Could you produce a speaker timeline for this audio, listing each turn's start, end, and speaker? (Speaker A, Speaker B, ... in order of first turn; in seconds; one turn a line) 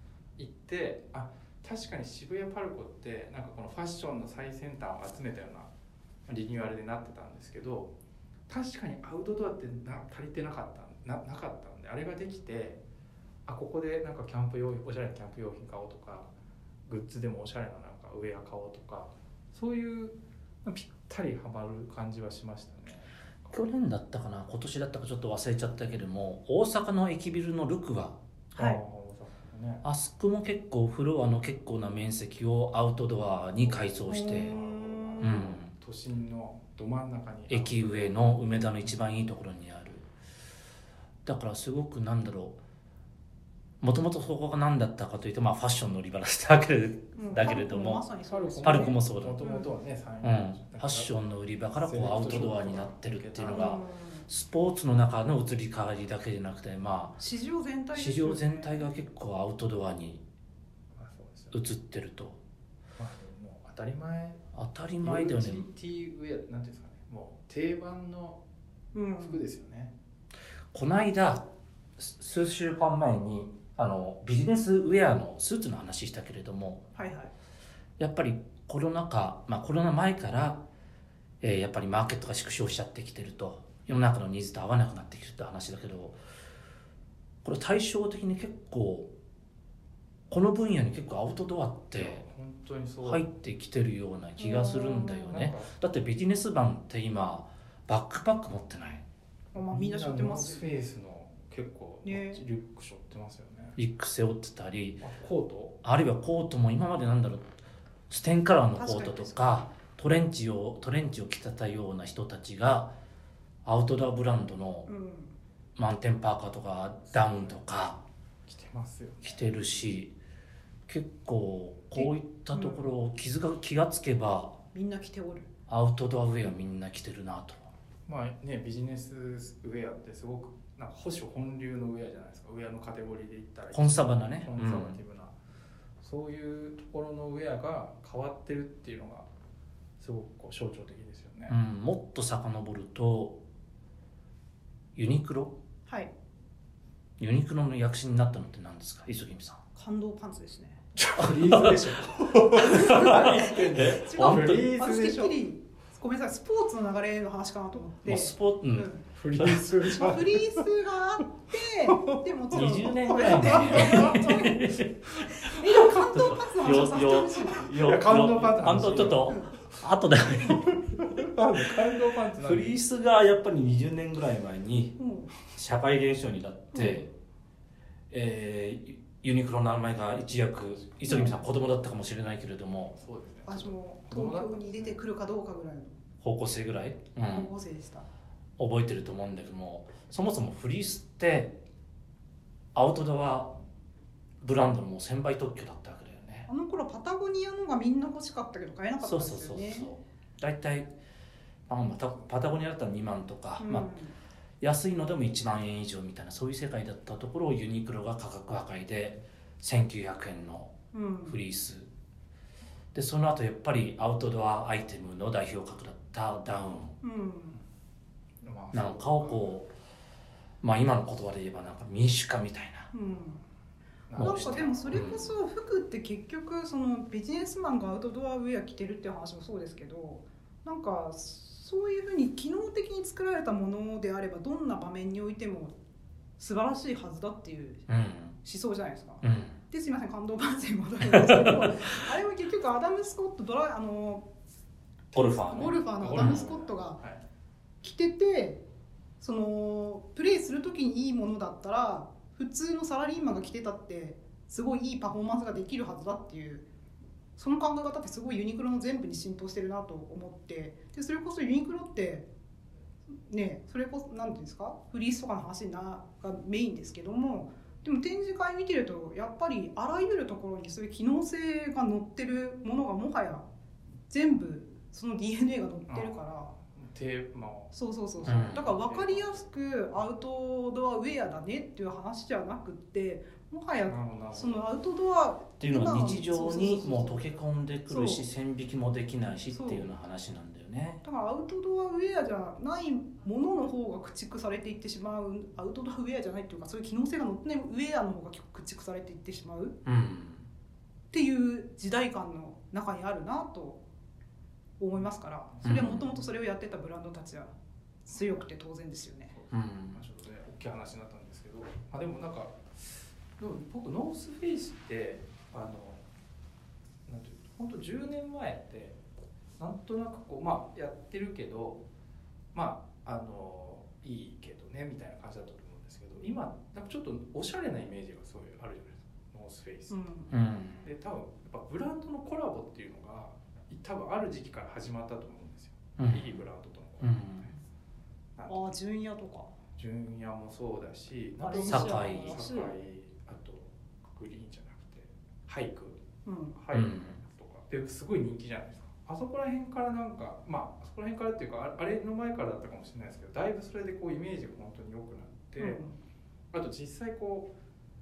Speaker A: 0.4-5.7
Speaker A: 6.3-7.9
Speaker A: 8.5-12.8
Speaker A: 13.4-16.3
Speaker A: 16.9-23.6
Speaker B: 23.5-28.2
Speaker A: 28.5-29.8
Speaker B: 29.8-34.5
Speaker A: 33.6-38.9
Speaker C: 34.1-35.3
Speaker B: 35.2-35.7
Speaker B: 37.5-40.1
Speaker B: 41.2-42.6
Speaker B: 43.8-48.0
Speaker C: 47.1-49.7
Speaker A: 48.3-51.1
Speaker B: 48.6-49.4
Speaker B: 50.2-57.2
Speaker A: 51.8-53.8
Speaker C: 53.4-54.3
Speaker C: 57.2-58.8
Speaker B: 57.9-60.2
Speaker A: 61.0-61.5
Speaker B: 61.5-62.4
Speaker A: 63.0-64.4
Speaker B: 64.5-65.7
Speaker A: 65.0-68.4
Speaker C: 68.9-69.4
Speaker A: 69.2-69.9
Speaker B: 70.7-76.9
Speaker C: 76.9-77.3
Speaker B: 78.0-80.6
Speaker B: 81.4-86.2
Speaker B: 87.4-89.1
Speaker B: 90.3-92.2
Speaker A: 91.9-93.3
Speaker B: 93.0-99.0
Speaker C: 94.4-95.3
Speaker A: 95.2-95.7
Speaker A: 99.5-103.8
Speaker C: 99.5-100.6
Speaker C: 102.0-102.4
Speaker B: 103.8-105.0
Speaker A: 105.0-105.8
Speaker B: 105.8-107.5
Speaker B: 108.1-112.9
Speaker C: 108.7-109.6
Speaker B: 113.6-114.9
Speaker C: 114.8-115.3
Speaker B: 115.8-118.0
Speaker A: 117.1-117.6
Speaker A: 118.5-119.4
Speaker B: 119.2-120.2
Speaker B: 120.9-124.6
Speaker C: 121.9-122.8
Speaker C: 124.7-125.5
Speaker B: 125.7-127.7
Speaker A: 128.1-135.3
Speaker B: 133.7-135.0
Speaker A: 136.0-139.3
Speaker A: 140.0-141.6
Speaker B: 141.5-143.4
Speaker B: 144.9-145.6
Speaker C: 145.9-146.1
Speaker B: 147.2-149.6
Speaker C: 149.7-150.8
Speaker A: 151.0-155.4
Speaker B: 151.2-154.7
Speaker C: 152.6-159.0
Speaker B: 158.0-159.6
Speaker A: 159.1-160.7
Speaker C: 159.8-167.7
Speaker A: 161.9-164.2
Speaker B: 162.5-171.2
Speaker A: 167.6-169.4
Speaker C: 169.3-169.5
Speaker A: 170.8-172.8
Speaker B: 172.4-177.1
Speaker C: 175.0-175.3
Speaker C: 176.7-177.0
Speaker B: 178.1-182.9
Speaker C: 181.1-181.3
Speaker A: 182.9-185.0
Speaker C: 183.4-185.9
Speaker B: 186.2-187.5
Speaker C: 187.3-188.1
Speaker B: 188.6-191.6
Speaker B: 192.7-193.6
Speaker B: 194.4-196.5
Speaker C: 196.5-199.9
Speaker B: 199.0-200.9
Speaker B: 201.7-203.9
Speaker C: 203.6-204.1
Speaker B: 204.6-211.9
Speaker C: 210.9-211.4
Speaker B: 212.9-217.0
Speaker C: 217.0-217.6
Speaker A: 218.4-219.6
Speaker B: 218.7-219.7
Speaker B: 220.6-222.9
Speaker C: 222.9-223.4
Speaker A: 224.1-225.1
Speaker B: 224.2-225.3
Speaker C: 224.2-235.7
Speaker C: 236.4-237.9
Speaker B: 237.9-238.3
Speaker C: 238.4-244.3
Speaker B: 239.2-239.6
Speaker B: 241.1-241.8
Speaker B: 245.1-246.5
Speaker A: 245.1-247.2
Speaker C: 245.4-247.0
Speaker C: 247.8-248.6
Speaker C: 249.2-256.6
Speaker C: 257.4-262.3
Speaker C: 263.3-273.4
Speaker C: 274.1-276.5
Speaker A: 275.9-279.4
Speaker C: 277.7-287.2
Speaker B: 278.2-278.7
Speaker A: 283.9-284.7
Speaker B: 285.6-291.0
Speaker C: 287.9-288.2
Speaker C: 289.5-289.9
Speaker C: 291.0-299.8
Speaker B: 299.8-300.5
Speaker C: 301.1-303.8
Speaker C: 304.8-307.5
Speaker B: 305.6-306.0
Speaker C: 308.1-309.3
Speaker A: 309.3-316.0
Speaker B: 309.5-310.0
Speaker A: 317.1-319.0
Speaker A: 319.6-321.8
Speaker A: 322.5-330.0
Speaker C: 329.9-330.3
Speaker B: 330.3-330.9
Speaker A: 330.8-337.5
Speaker B: 336.0-336.4
Speaker B: 337.0-337.5
Speaker A: 338.4-338.7
Speaker C: 338.5-339.5
Speaker A: 339.8-346.0
Speaker C: 341.4-342.7
Speaker B: 341.6-342.4
Speaker C: 346.2-346.6
Speaker A: 346.5-355.8
Speaker B: 346.7-347.2
Speaker C: 355.6-355.9
Speaker A: 356.5-357.5